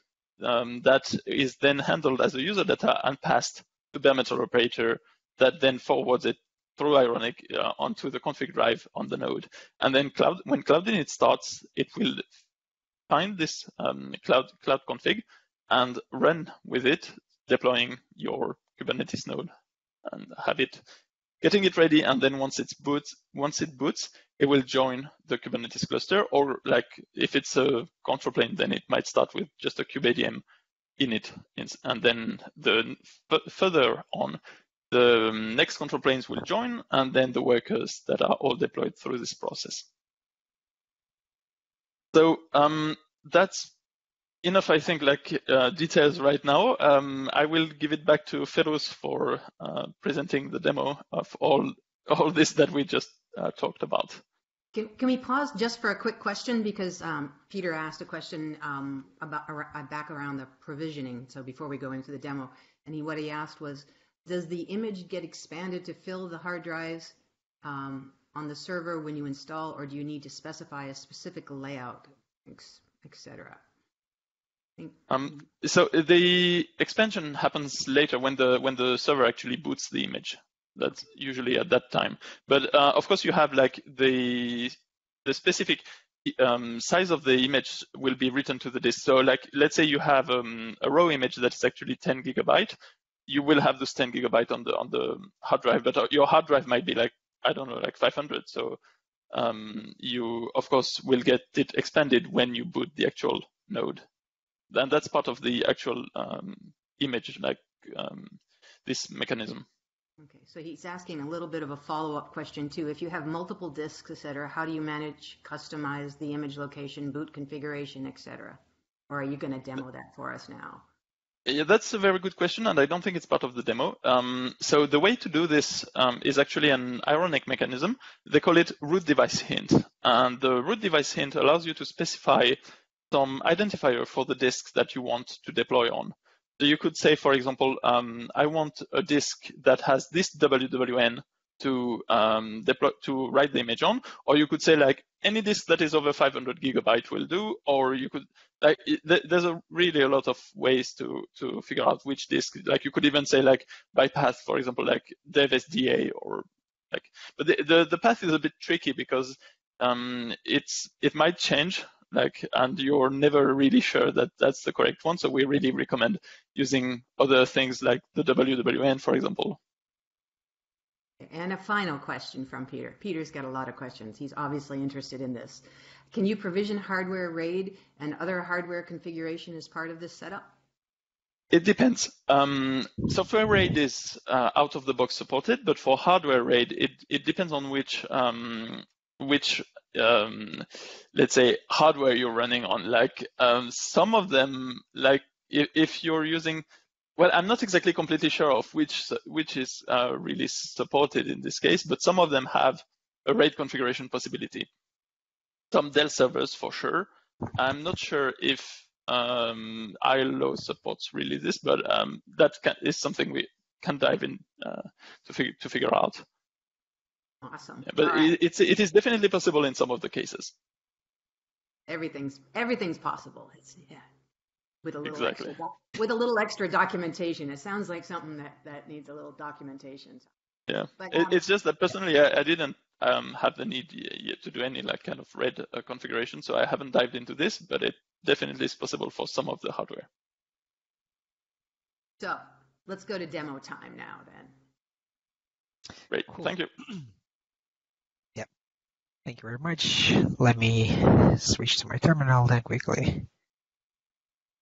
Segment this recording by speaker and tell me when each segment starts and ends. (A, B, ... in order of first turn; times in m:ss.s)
0:00.4-0:12.2 A
0:13.1-0:19.5 A
0:20.0-0:20.8 A
0:21.4-0:30.4 A
0:31.0-0:34.4 A
0:34.9-0:39.9 A
0:42.1-0:43.7 A
0:44.4-0:54.2 A
0:54.7-1:07.1 B
1:07.6-1:13.6 B
1:15.1-1:32.8 A
1:33.3-1:38.8 A
1:39.3-1:44.0 A
1:44.7-1:49.6 A
1:50.2-2:00.8 B
2:01.5-2:12.6 A
2:13.1-2:49.6 A
2:51.2-3:00.5 B
3:01.5-3:16.6 A
3:17.2-3:24.7 A
3:25.7-3:36.2 A
3:37.4-3:38.4 B
3:37.9-3:40.5 A
3:41.9-3:44.0 B
3:44.8-3:50.3 B
3:45.0-3:45.6 A
3:50.7-4:00.1 A
3:51.0-3:51.4 B
4:02.2-4:04.5 B
4:06.1-4:06.7 A
4:09.2-4:13.3 C